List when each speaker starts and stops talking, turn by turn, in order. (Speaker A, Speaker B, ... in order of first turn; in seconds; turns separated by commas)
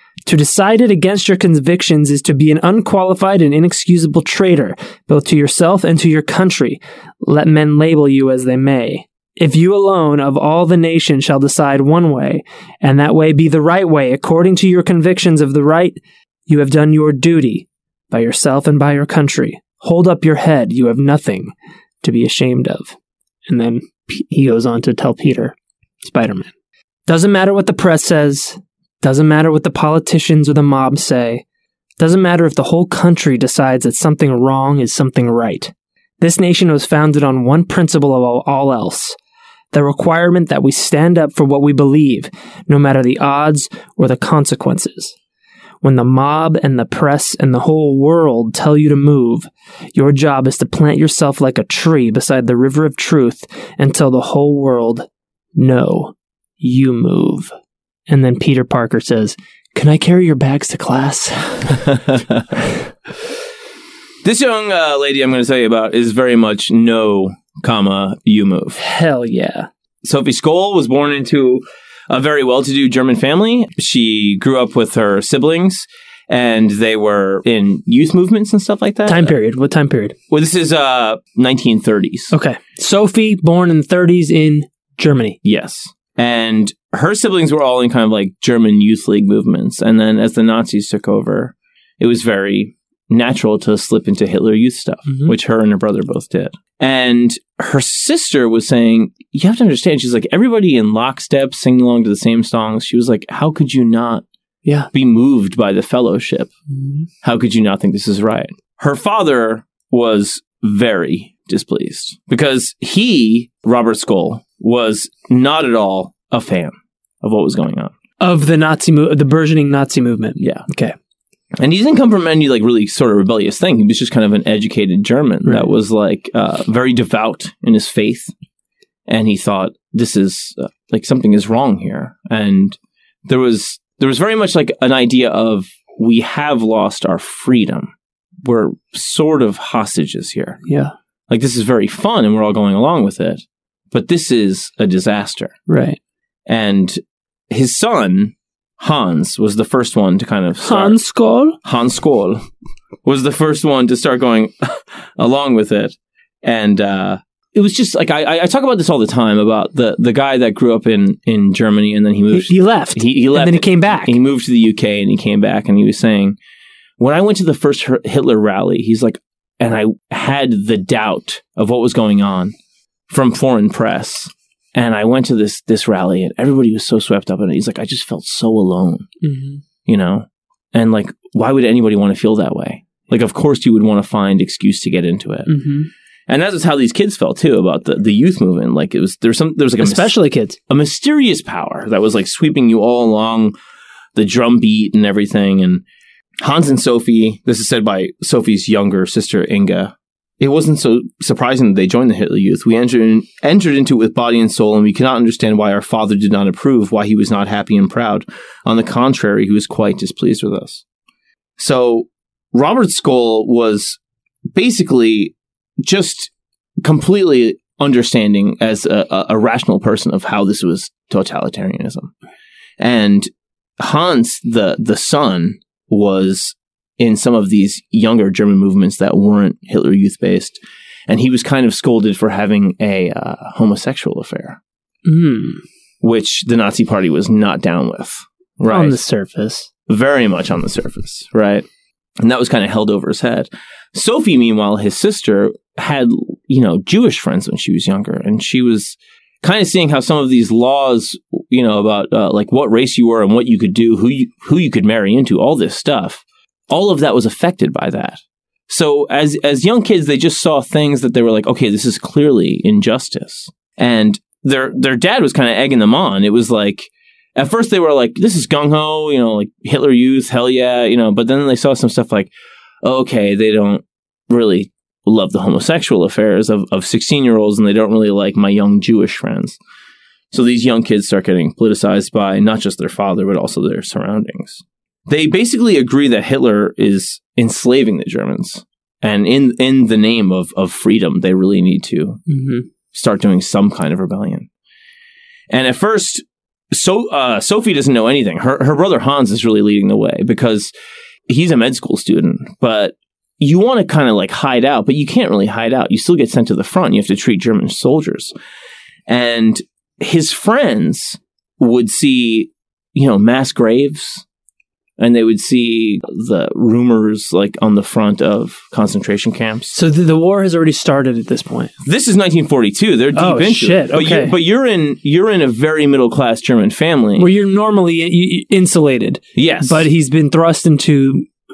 Speaker A: 0.2-22.9, Speaker A: 23.5-26.5, Speaker A: 27.1-31.4, Speaker A: 32.0-39.2, Speaker A: 39.7-45.1, Speaker A: 45.8-57.5, Speaker A: 58.1-61.9, Speaker B: 64.2-68.8, Speaker A: 68.8-69.7, Speaker B: 70.0-79.3, Speaker A: 79.0-80.1, Speaker B: 80.3-82.3, Speaker A: 82.3-85.4, Speaker B: 85.4-104.2, Speaker A: 95.1-95.3, Speaker A: 104.6-104.9, Speaker B: 104.9-106.5, Speaker B: 107.2-117.9, Speaker A: 118.2-120.9, Speaker B: 120.4-120.6, Speaker B: 121.5-128.3, Speaker A: 125.4-125.7, Speaker B: 129.1-137.9, Speaker B: 138.4-140.6, Speaker A: 140.7-140.9, Speaker B: 141.3-145.5, Speaker A: 145.7-146.0, Speaker B: 146.5-151.0, Speaker A: 150.6-151.6, Speaker B: 151.6-152.4, Speaker B: 153.0-166.4, Speaker A: 162.3-164.2, Speaker B: 167.0-172.5, Speaker B: 173.1-179.1, Speaker A: 179.2-179.6, Speaker B: 179.9-185.5, Speaker A: 185.5-185.9, Speaker B: 186.3-190.2, Speaker A: 189.8-190.6, Speaker B: 190.7-193.5, Speaker B: 194.1-195.8, Speaker B: 196.4-210.8, Speaker B: 211.6-214.0, Speaker B: 214.5-216.3, Speaker B: 216.8-222.1, Speaker B: 222.8-234.6, Speaker A: 235.0-235.6, Speaker B: 236.0-239.0, Speaker A: 238.7-239.7, Speaker B: 239.9-241.6, Speaker B: 242.2-272.3, Speaker B: 272.8-279.6, Speaker B: 280.3-292.2, Speaker A: 292.3-292.6, Speaker B: 292.9-294.5, Speaker B: 295.5-300.7, Speaker B: 301.3-308.3, Speaker B: 309.1-314.2, Speaker B: 315.0-319.7, Speaker A: 319.7-321.7, Speaker B: 321.8-327.3, Speaker A: 323.1-324.3, Speaker A: 327.2-331.3, Speaker B: 329.3-329.9